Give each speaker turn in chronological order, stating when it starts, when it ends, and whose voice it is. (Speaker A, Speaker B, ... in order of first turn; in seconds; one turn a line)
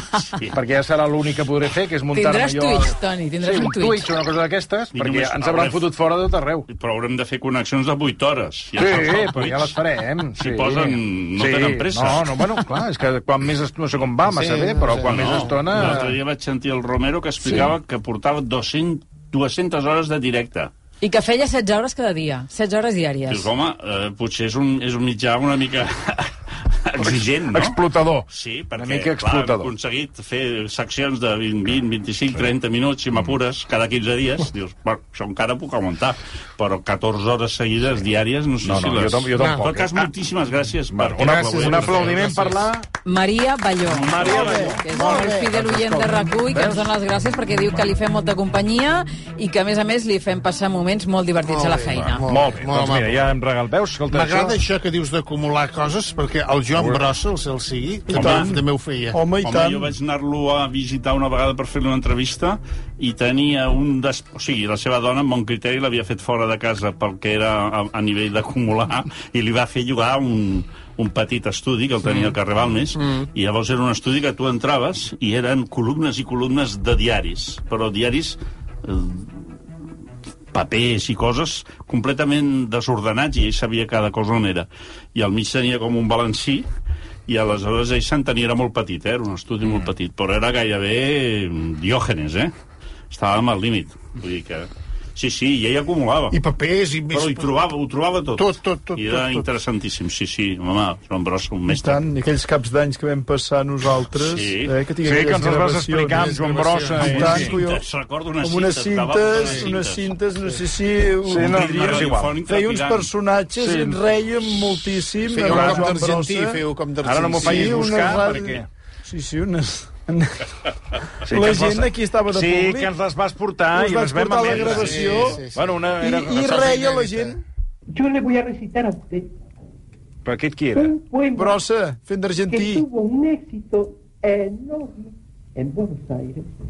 Speaker A: 0.5-6.7
Speaker B: 2.1-4.1
Speaker C: 4.9-5.9
Speaker C: 6.7-9.8
Speaker A: 8.8-16.2
Speaker C: 10.4-12.6
Speaker D: 14.2-16.0
Speaker C: 15.0-20.7
Speaker B: 21.0-23.5
Speaker C: 23.3-42.7
Speaker A: 27.0-29.7
Speaker A: 38.6-40.1
Speaker A: 40.9-42.9
Speaker D: 41.2-42.6
Speaker B: 43.0-52.2
Speaker A: 43.9-46.8
Speaker D: 51.4-53.2
Speaker A: 51.9-54.6
Speaker D: 54.1-59.2
Speaker A: 56.7-57.0
Speaker E: 58.1-59.9
Speaker C: 58.1-58.5
Speaker C: 59.4-79.5
Speaker C: 80.5-86.7
Speaker C: 87.3-92.5
Speaker C: 93.1-96.4
Speaker D: 96.3-97.5
Speaker C: 97.1-102.0
Speaker D: 98.4-99.5
Speaker E: 101.7-106.3
Speaker C: 104.2-104.8
Speaker A: 105.0-107.6
Speaker D: 106.1-107.5
Speaker E: 107.0-107.8
Speaker C: 107.0-110.1
Speaker E: 108.4-116.6
Speaker D: 109.4-109.7
Speaker A: 111.2-112.4
Speaker C: 111.3-113.1
Speaker A: 113.6-114.0
Speaker D: 115.2-118.1
Speaker A: 115.5-115.9
Speaker A: 117.0-118.7
Speaker E: 117.4-120.5
Speaker E: 121.2-122.9
Speaker A: 121.2-126.8
Speaker E: 123.7-125.4
Speaker D: 124.5-125.8
Speaker E: 126.0-127.4
Speaker D: 126.5-127.4
Speaker F: 127.9-129.3
Speaker A: 130.2-130.9
Speaker F: 130.7-131.6
Speaker E: 131.3-132.8
Speaker F: 132.5-136.5